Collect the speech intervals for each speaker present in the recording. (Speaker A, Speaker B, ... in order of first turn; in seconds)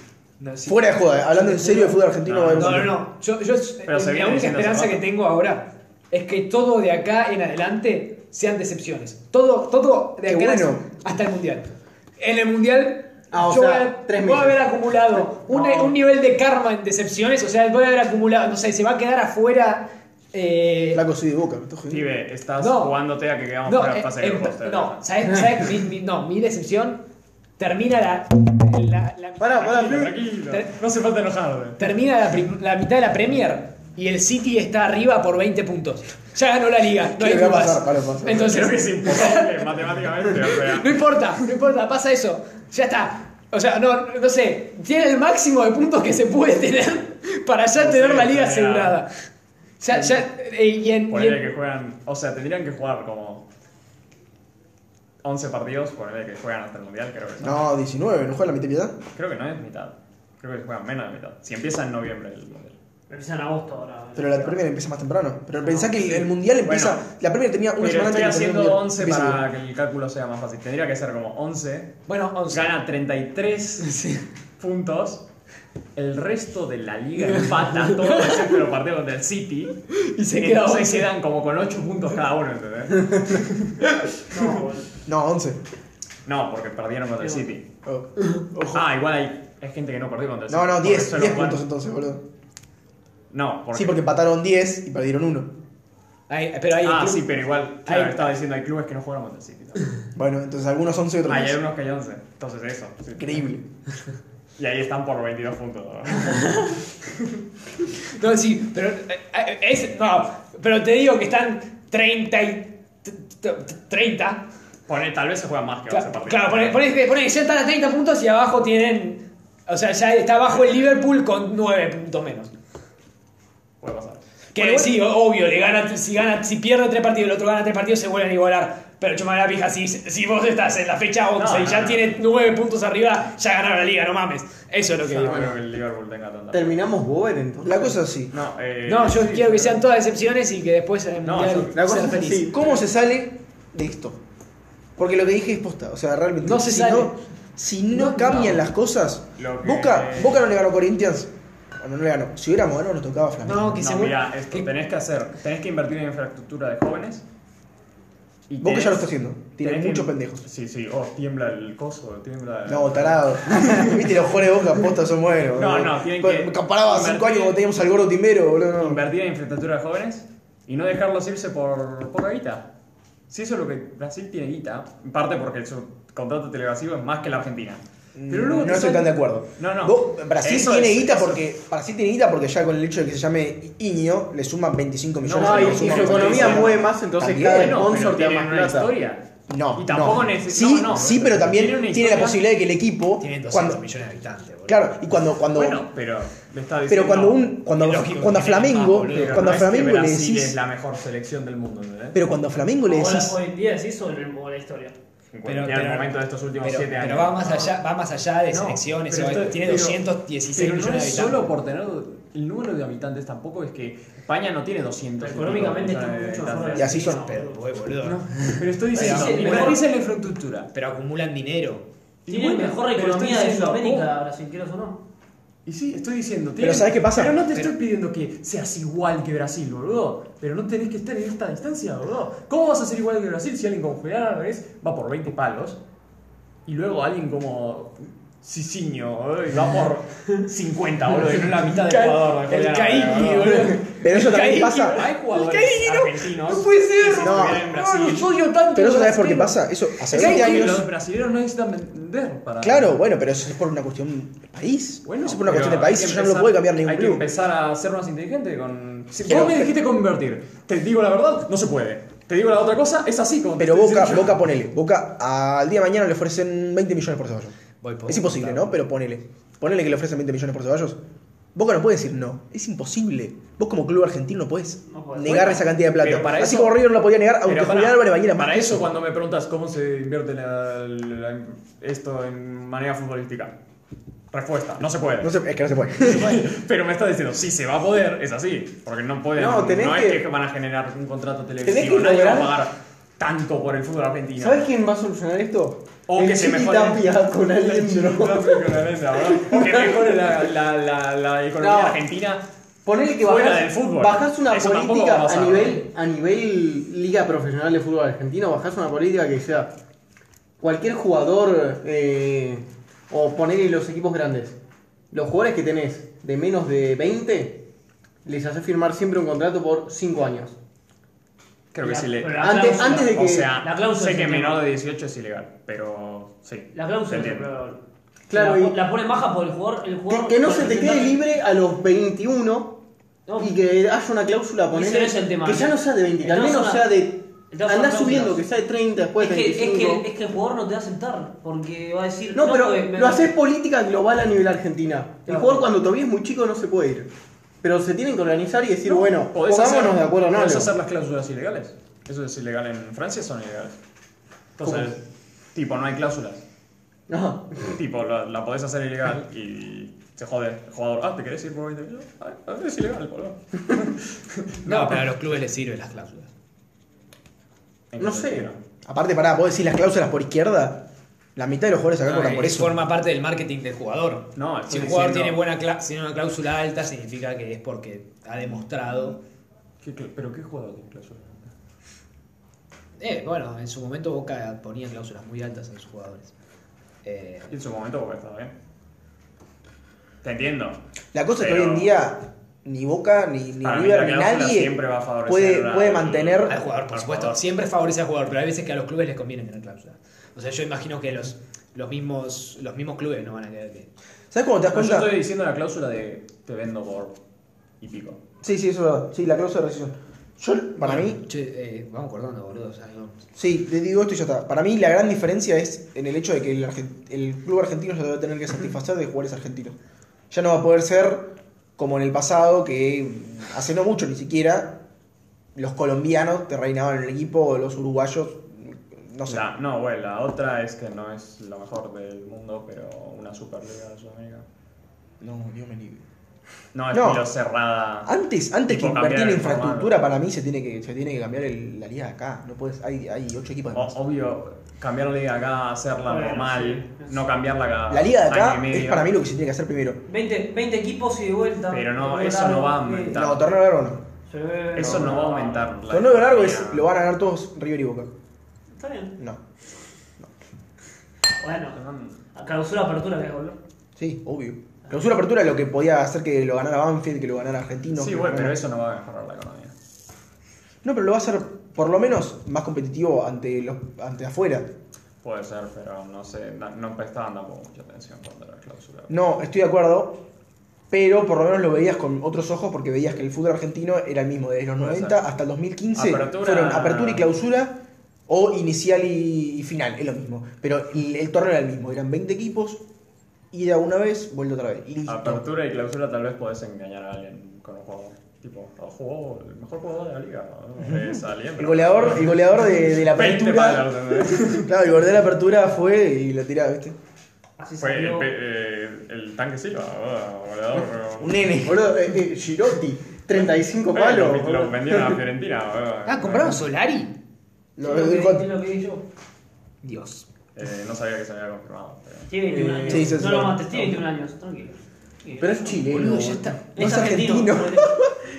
Speaker A: 0.4-21.0, 22.6-23.0, 23.6-27.0, 27.6-29.7, 31.8-39.7, 40.3-49.1, 49.8-51.4, 72.1-72.7, 73.8-74.2, 77.2-78.6, 79.9-81.1, 96.3-98.3, 106.3-106.7, 108.0-114.4, 115.9-122.5, 124.5-135.6, 138.8-142.5, 146.4-147.2, 147.9-148.6, 153.4-154.7, 193.2-195.0, 197.7-199.7, 205.4-211.5, 217.0-219.8, 220.7-221.8, 241.4-250.8, 267.8-268.8, 364.6-366.3, 372.0-379.2, 383.0-386.3, 387.0-387.5, 396.4-403.9, 410.8-413.2, 516.0-517.1, 519.8-520.2, 525.9-526.7
Speaker B: 0.7-3.0, 10.2-10.8, 20.9-22.0, 37.1-38.5, 57.4-59.0, 64.1-69.4, 85.0-85.6, 87.8-88.8, 90.5-92.2, 93.7-95.5, 100.1-101.6, 103.2-103.6, 124.5-125.0, 137.6-138.3, 142.5-144.2, 145.0-153.9, 158.6-160.4, 162.7-169.0, 178.1-187.8, 189.5-193.8, 194.7-195.8, 196.9-200.6, 202.1-203.4, 216.8-217.2, 226.6-227.4, 243.8-245.0, 247.2-247.7, 248.7-250.8, 252.6-257.2, 259.2-259.7, 263.6-271.0, 271.5-278.9, 285.2-286.5, 368.9-372.8, 391.1-396.6, 404.3-405.2, 408.4-411.2, 413.4-419.8, 420.3-424.8, 425.5-429.4, 435.2-436.0, 436.9-437.2, 438.0-443.9, 447.9-450.0, 453.1-454.0, 455.9-458.1, 464.0-468.6, 470.8-474.7, 479.1-480.2, 480.9-492.8, 493.5-495.4, 500.8-507.0, 511.2-512.0, 517.8-518.5, 522.8-523.9, 525.9-528.2
Speaker C: 2.2-2.9, 3.8-5.0, 15.5-15.9, 21.9-25.0, 29.6-31.8, 38.3-41.0, 47.8-49.0, 51.1-53.5, 55.2-57.6, 59.1-62.8, 66.6-67.0, 67.8-72.0, 72.5-73.9, 74.6-75.2, 76.0-79.8, 80.3-83.7, 86.2-87.7, 88.7-91.6, 93.3-94.1, 96.8-99.9, 101.2-103.5, 104.6-106.6, 114.9-116.8, 123.8-124.2, 131.3-132.1, 135.0-136.8, 138.3-139.8, 141.2-141.8, 148.3-148.6, 149.4-150.4, 153.8-157.2, 158.5-164.0, 165.5-167.6, 168.8-172.7, 173.3-181.4, 185.2-186.8, 187.4-189.2, 189.7-192.4, 195.5-197.6, 199.0-202.2, 205.3-207.8, 208.5-210.0, 210.5-217.0, 218.0-220.7, 222.2-224.1, 225.7-235.8, 236.7-243.8, 244.8-248.4, 250.1-253.0, 255.0-264.4, 275.9-276.8, 277.4-283.6, 284.3-285.3, 286.0-294.7, 296.1-302.4, 303.2-305.9, 321.7-327.5, 348.8-353.8, 354.6-356.4, 357.6-365.3, 367.9-368.6, 374.4-375.4, 379.8-381.5, 387.5-388.5, 390.2-390.8, 391.4-391.9, 393.6-397.4, 404.7-407.1, 407.8-408.2, 429.2-434.4, 436.7-438.1, 438.7-440.0, 443.7-449.1, 451.7-453.5, 454.7-456.9, 461.7-462.2, 467.9-469.7, 475.2-479.1, 484.8-485.3, 485.9-487.3, 495.1-504.7, 507.8-511.4, 513.3-516.6, 520.5-522.3
Speaker D: 13.3-14.6, 29.4-30.2, 135.3-135.5, 136.5-138.0, 141.7-142.7, 185.3-188.9, 289.4-290.2, 291.6-292.5, 294.4-300.2, 301.6-302.0, 302.8-309.7, 310.6-314.6, 315.1-317.6, 318.2-320.6, 322.4-323.5, 328.3-328.8, 330.1-332.8, 333.4-340.0, 342.3-347.1, 347.6-350.7, 354.6-354.9, 357.1-357.5, 368.0-368.5, 511.6-515.2, 522.5-523.1, 525.4-526.6
Speaker E: 63.1-64.7, 84.3-84.9, 87.2-87.5, 202.8-204.9, 215.2-217.6, 218.9-219.8, 222.3-225.0, 274.9-275.6, 321.8-324.7, 326.7-331.2, 333.3-333.5, 334.7-336.9, 337.5-338.4, 339.2-343.3, 345.3-345.7, 446.1-447.2, 450.1-453.2, 454.3-455.7, 458.8-459.1, 461.4-461.8, 462.3-463.6, 507.6-508.3, 517.8-519.0, 522.3-525.9, 526.7-528.1